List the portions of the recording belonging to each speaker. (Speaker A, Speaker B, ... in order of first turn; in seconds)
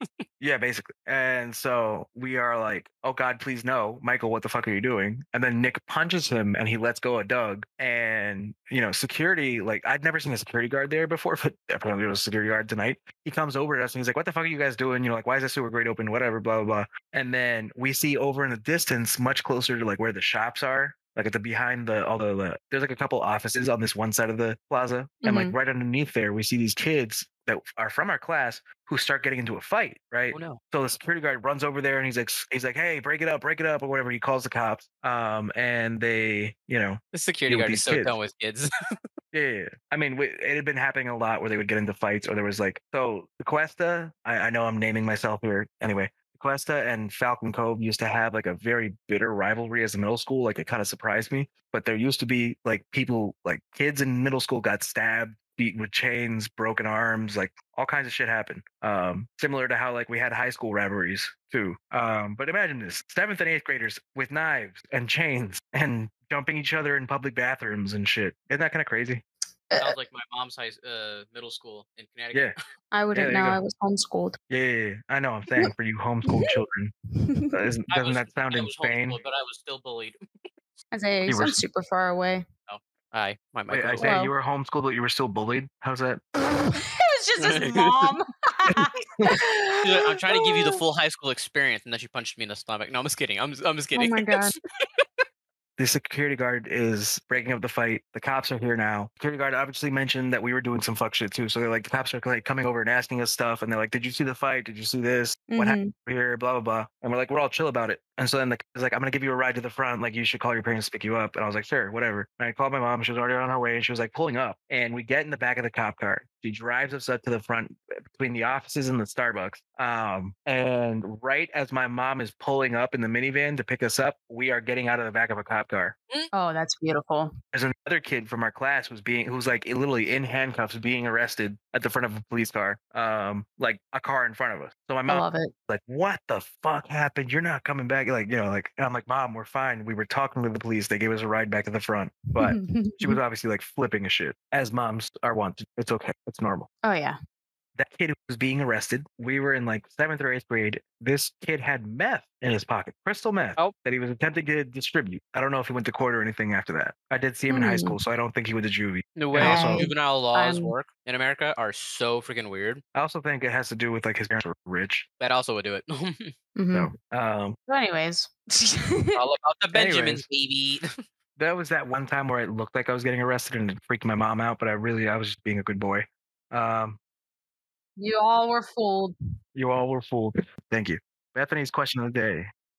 Speaker A: 0.4-38.2, 39.3-69.2, 73.1-73.6, 74.5-76.9, 77.5-79.2, 81.3-81.6, 83.7-86.2, 95.8-126.0, 127.5-146.7, 147.8-159.9, 162.9-165.1, 166.7-167.6, 169.7-170.2, 171.4-177.0, 179.6-182.5
Speaker B: 25.2-25.6, 72.9-74.4, 76.3-76.6, 77.2-77.6, 80.9-82.5, 84.0-84.3, 86.4-90.8, 94.0-94.5, 105.5-105.9, 126.3-127.3, 135.1-135.5, 142.4-143.2, 146.8-147.2, 157.5-158.0, 159.4-160.7, 166.6-166.9, 167.7-169.2, 178.0-179.2
Speaker C: 30.3-30.6, 37.1-39.0, 69.8-72.5, 77.9-80.2, 82.7-84.1, 87.4-88.1, 89.8-95.1, 159.2-162.8, 165.2-166.3, 169.2-170.9